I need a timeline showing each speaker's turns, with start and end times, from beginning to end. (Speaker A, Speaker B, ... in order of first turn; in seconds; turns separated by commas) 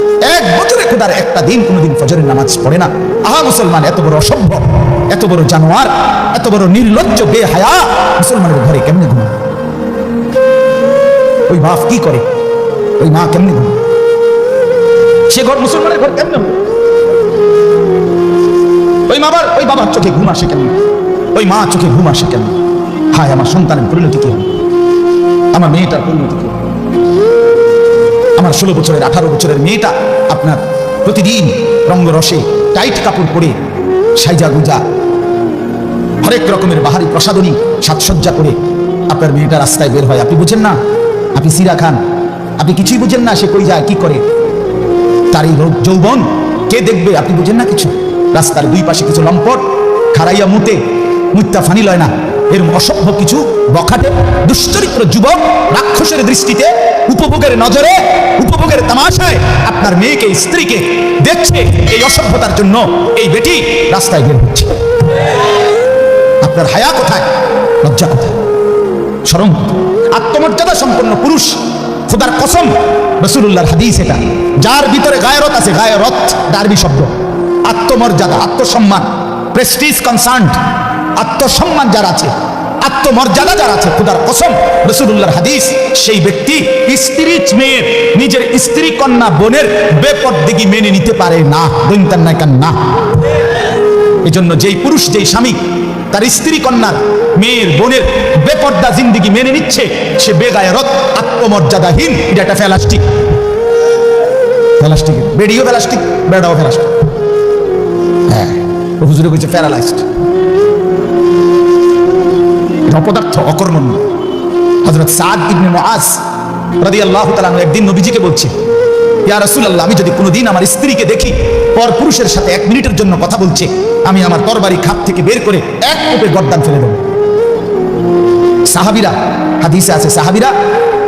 Speaker A: 0.2-9.3, Speaker A: 11.5-12.2, Speaker A: 13.0-13.8, Speaker A: 15.3-16.6, Speaker A: 19.1-20.7, Speaker A: 21.3-22.5, Speaker A: 23.1-24.5, Speaker A: 25.5-26.6, Speaker A: 28.4-33.5, Speaker A: 34.2-34.8, Speaker A: 36.2-38.6, Speaker A: 39.1-40.8, Speaker A: 41.3-42.0, Speaker A: 42.6-44.2, Speaker A: 45.3-50.8, Speaker A: 51.3-64.8, Speaker A: 66.4-67.3, Speaker A: 67.8-68.4, Speaker A: 69.2-77.1, Speaker A: 77.7-80.6, Speaker A: 81.2-92.8, Speaker A: 94.2-95.6, Speaker A: 96.1-103.0, Speaker A: 104.8-106.9, Speaker A: 108.3-110.0, Speaker A: 112.9-114.0, Speaker A: 114.8-116.2, Speaker A: 116.8-118.5, Speaker A: 119.2-127.0, Speaker A: 128.7-130.5